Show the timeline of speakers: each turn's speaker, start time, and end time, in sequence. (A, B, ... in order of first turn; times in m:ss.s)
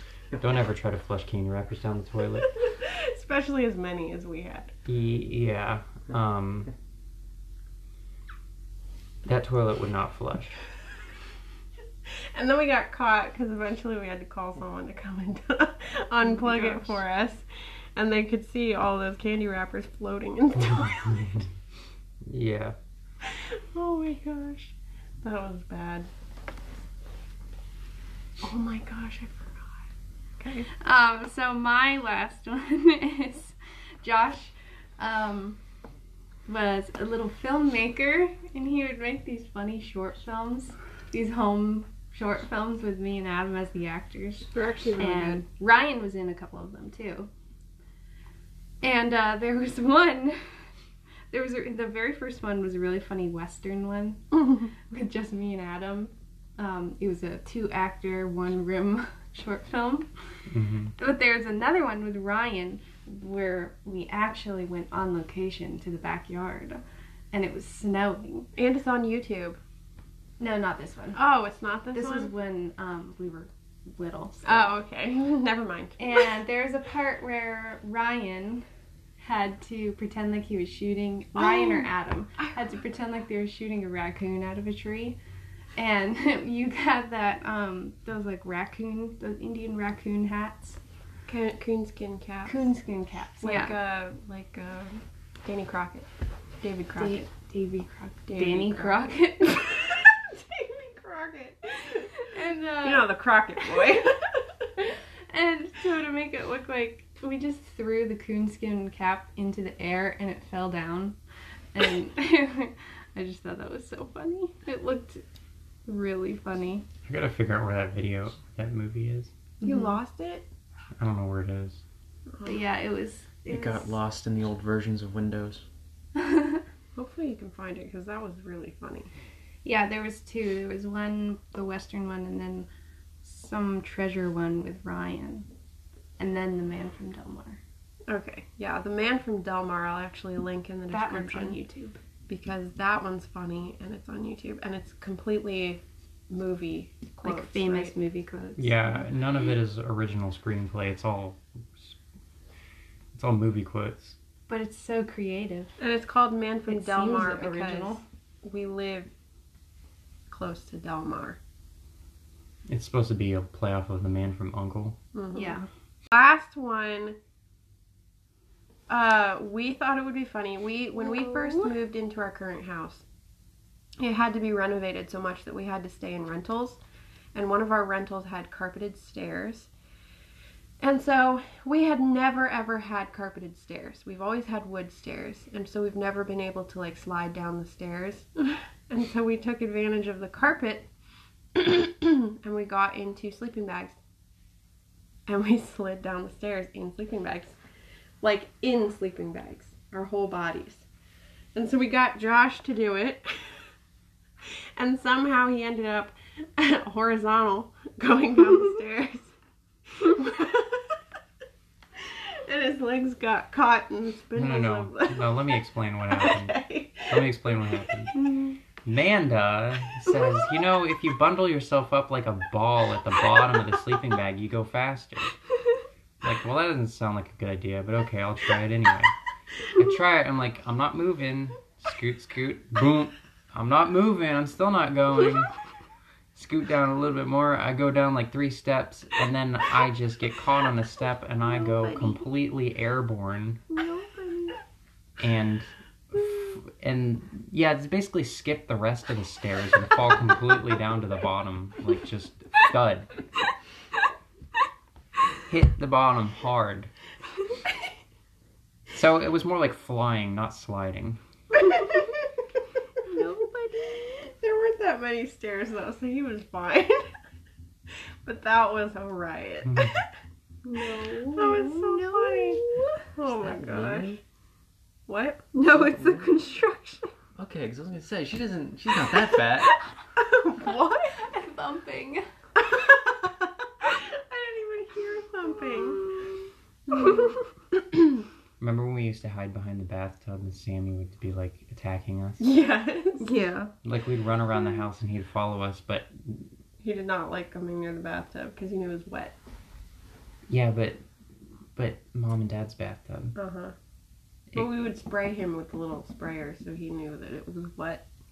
0:00.4-0:02.5 A
0:02.6-0:04.7 B
0:04.9-0:06.7 A
0:09.2-0:10.6 A
0:12.3-0:17.4 B
0:16.3-0:17.0 C
0:18.0-0:21.4 B
0:20.8-0:21.4 A
0:22.2-0:22.8 A
0:23.2-0:26.1 B
0:28.4-0:29.8 B
0:30.4-0:30.7 B
0:30.8-0:35.6 C
0:36.5-0:47.3 C
0:44.5-0:45.4 B
0:48.8-0:50.4 C
0:51.3-1:00.1 C
1:00.5-1:00.9 A
1:01.0-1:08.5 C
1:08.6-1:09.6 B
1:10.4-1:11.2 C
1:11.2-1:12.3 B
1:11.9-1:14.7 C
1:14.4-1:16.2 B
1:16.0-1:18.7 C
1:19.2-1:25.2 C
1:21.4-1:21.9 B
1:25.8-1:30.8 C
1:31.3-1:32.7 B
1:32.5-1:33.8 C
1:33.4-1:36.1 B
1:36.6-1:37.3 B
1:37.0-1:39.8 C
1:38.3-1:42.2 B
1:42.2-1:43.2 C
1:42.8-1:44.5 B
1:45.3-1:51.2 C
1:51.7-1:55.2 C
1:55.9-1:56.9 C
1:57.1-1:59.3 A
1:59.6-2:00.5 B
1:59.6-2:00.0 C
2:01.0-2:01.8 A
2:02.4-2:04.0 C
2:03.5-2:05.6 D
2:06.2-2:06.6 C
2:07.0-2:09.1 B
2:09.6-2:12.7 C
2:13.2-2:15.5 C
2:16.2-2:17.6 C
2:18.1-2:21.6 B
2:20.9-2:22.0 C
2:22.3-2:28.0 B
2:27.2-2:29.0 C
2:28.6-2:32.0 A
2:33.2-2:34.2 A
2:34.5-2:35.7 C
2:35.8-2:39.1 B
2:36.7-2:38.0 C
2:40.3-2:41.4 B
2:42.7-2:45.0 A
2:45.1-2:45.6 B
2:45.3-2:45.7 C
2:46.1-2:47.2 B
2:48.9-2:53.0 B
2:51.0-2:51.7 C
2:54.0-2:56.8 B
2:57.4-2:59.7 B
3:00.8-3:10.9 B
3:11.5-3:14.0 B
3:15.3-3:17.6 B
3:18.2-3:20.9 B
3:21.6-3:23.5 B
3:24.5-3:29.3 B
3:29.9-3:31.0 B
3:32.0-3:35.5 B
3:34.4-3:38.2 A
3:36.1-3:37.2 B
3:38.8-3:45.4 A
3:46.2-3:49.1 A
3:49.8-3:55.5 A
3:56.4-4:03.6 A
4:01.5-4:02.0 B
4:03.7-4:04.6 B
4:05.2-4:13.1 A
4:15.5-4:16.9 A
4:18.9-4:21.2 A
4:23.0-4:27.1 B
4:28.2-4:30.0 B
4:30.7-4:33.0 C
4:31.0-4:32.6 B
4:33.2-4:34.2 B
4:33.4-4:34.2 D
4:35.1-4:35.5 B
4:35.5-4:37.1 C
4:35.8-4:36.2 D
4:37.4-4:39.8 D
4:40.2-4:41.2 B
4:41.2-4:42.3 C
4:42.6-4:46.1 B
4:45.7-4:46.3 C
4:46.9-4:47.4 B
4:48.6-4:52.4 A
4:52.4-4:53.4 B
4:53.2-4:53.7 C
4:53.8-4:56.5 A
4:56.8-4:59.4 B
5:00.5-5:01.0 A
5:01.8-5:03.4 A
5:03.4-5:03.8 B
5:04.5-5:08.0 B